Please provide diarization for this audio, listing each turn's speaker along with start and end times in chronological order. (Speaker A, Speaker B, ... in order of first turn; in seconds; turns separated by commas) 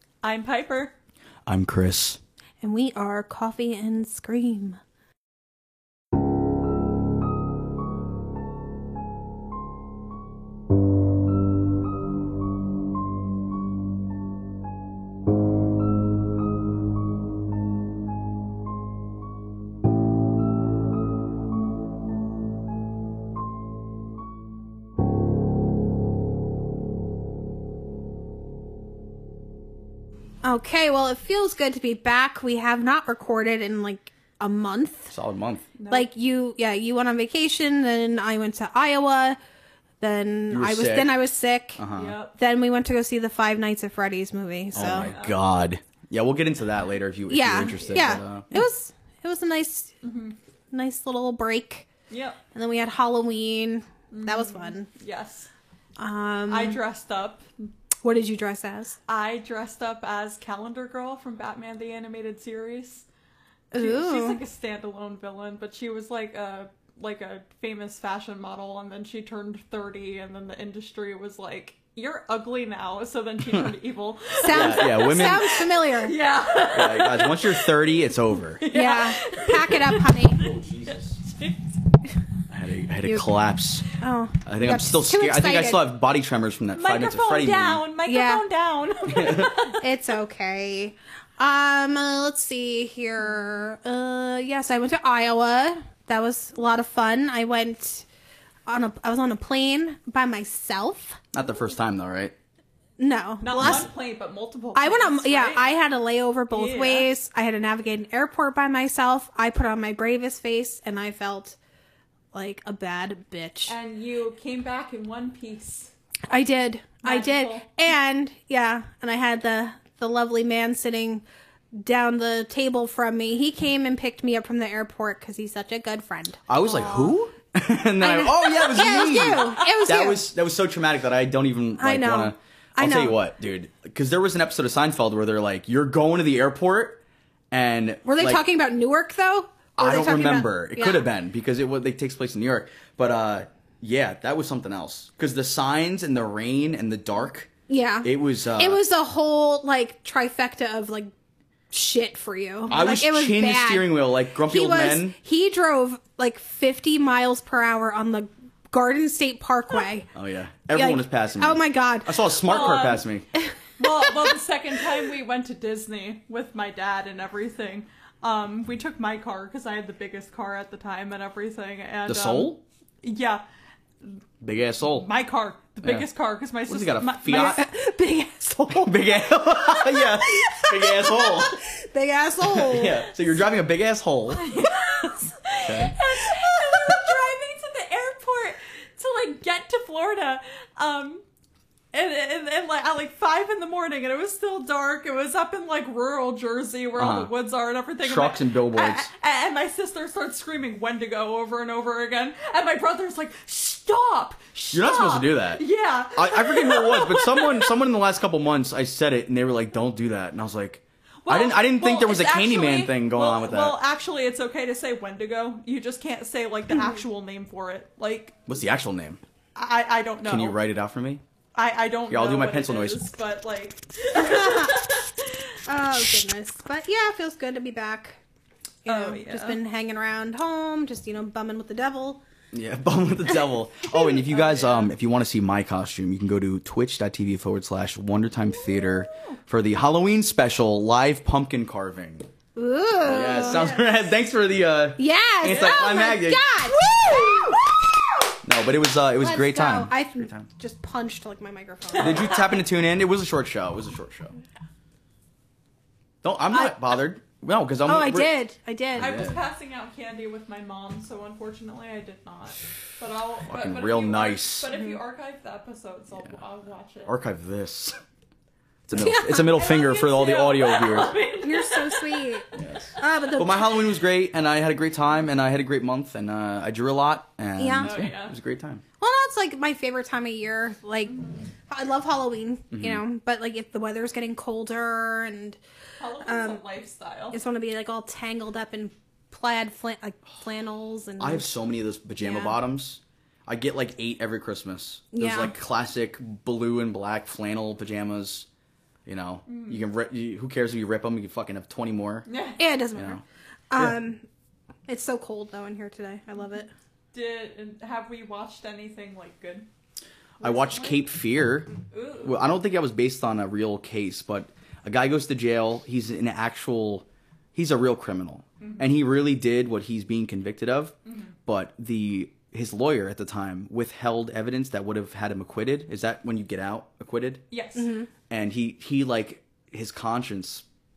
Speaker A: 0.2-0.9, Speaker B: 1.5-2.2, Speaker C: 2.6-4.8, Speaker C: 30.4-35.1, Speaker B: 35.1-35.7, Speaker A: 35.8-36.1, Speaker C: 35.9-39.4, Speaker C: 40.0-41.8, Speaker B: 40.5-41.1, Speaker B: 41.8-42.2, Speaker A: 41.9-42.4, Speaker C: 42.4-45.1, Speaker B: 44.8-48.5, Speaker A: 44.8-45.4, Speaker C: 47.3-49.9, Speaker A: 50.0-50.4, Speaker C: 50.7-51.9, Speaker A: 52.1-52.4, Speaker C: 52.5-54.9, Speaker A: 54.1-55.5, Speaker C: 56.0-56.8, Speaker A: 56.5-57.5, Speaker C: 58.0-59.0, Speaker A: 59.1-63.1, Speaker C: 63.7-64.4, Speaker A: 63.8-80.5, Speaker C: 74.4-76.2, Speaker B: 74.5-75.6, Speaker B: 76.6-78.7, Speaker C: 78.7-80.5, Speaker B: 80.3-81.2, Speaker A: 81.2-81.5, Speaker B: 82.5-83.8, Speaker C: 84.0-85.8, Speaker B: 84.5-87.8, Speaker A: 86.7-89.8, Speaker C: 88.1-88.4, Speaker B: 89.1-89.6, Speaker C: 89.3-98.1, Speaker C: 98.7-101.2, Speaker B: 101.3-102.3, Speaker C: 103.0-103.9, Speaker A: 103.4-105.7, Speaker B: 103.6-103.9, Speaker C: 104.8-111.6, Speaker A: 106.5-107.1, Speaker C: 112.3-113.8, Speaker A: 113.7-115.9, Speaker C: 116.3-126.4, Speaker A: 117.0-117.7, Speaker B: 126.5-138.4, Speaker C: 128.0-130.3, Speaker C: 131.8-133.2, Speaker C: 138.1-141.1, Speaker B: 139.8-147.5, Speaker C: 147.7-151.1, Speaker B: 148.0-148.8, Speaker C: 151.7-160.1, Speaker B: 152.7-155.2, Speaker B: 160.2-163.3, Speaker C: 160.7-162.8, Speaker A: 162.4-163.0, Speaker A: 163.8-173.4, Speaker B: 172.1-172.6, Speaker B: 174.4-175.1, Speaker A: 174.8-177.7, Speaker B: 176.7-177.7, Speaker C: 177.3-183.1, Speaker B: 178.7-181.6, Speaker B: 182.4-184.5, Speaker A: 184.3-191.2, Speaker B: 185.6-186.0, Speaker A: 191.9-207.7, Speaker B: 197.0-197.3, Speaker B: 198.0-199.1, Speaker B: 204.7-213.8, Speaker A: 211.2-218.4, Speaker B: 218.5-219.2, Speaker A: 219.6-220.6, Speaker B: 220.2-221.2, Speaker A: 221.6-225.1, Speaker B: 222.1-223.0, Speaker C: 224.1-224.9, Speaker C: 225.7-228.2, Speaker C: 228.8-232.2, Speaker A: 228.9-229.6, Speaker B: 232.5-242.3, Speaker A: 234.3-234.9, Speaker C: 242.6-243.8, Speaker B: 243.0-247.6, Speaker C: 245.0-246.9, Speaker A: 246.9-247.6, Speaker B: 248.4-250.5, Speaker C: 249.2-252.5, Speaker B: 252.0-254.3, Speaker B: 256.2-258.3, Speaker C: 257.9-259.3, Speaker B: 258.9-259.4, Speaker A: 259.0-267.1, Speaker B: 263.5-264.7, Speaker C: 264.7-265.0, Speaker B: 267.1-268.0, Speaker B: 268.9-271.2, Speaker C: 269.0-269.6, Speaker A: 269.3-272.4, Speaker C: 271.4-273.9, Speaker B: 272.6-278.8, Speaker C: 277.6-277.9, Speaker A: 277.8-278.3, Speaker C: 279.0-285.6, Speaker B: 282.7-283.0, Speaker A: 286.0-287.4, Speaker C: 286.2-286.6, Speaker C: 287.3-291.5, Speaker B: 291.2-298.5, Speaker C: 292.2-292.6, Speaker C: 295.1-295.5, Speaker B: 299.1-302.3, Speaker A: 299.5-299.8, Speaker A: 302.3-302.6, Speaker C: 302.6-304.2, Speaker B: 302.9-303.2, Speaker C: 304.9-306.7, Speaker A: 307.1-309.7, Speaker B: 310.4-311.7, Speaker A: 310.4-311.0, Speaker A: 311.9-312.4, Speaker B: 312.2-327.4, Speaker A: 318.6-318.9, Speaker A: 321.1-321.3, Speaker A: 327.5-327.9, Speaker C: 327.8-328.1, Speaker B: 328.3-330.6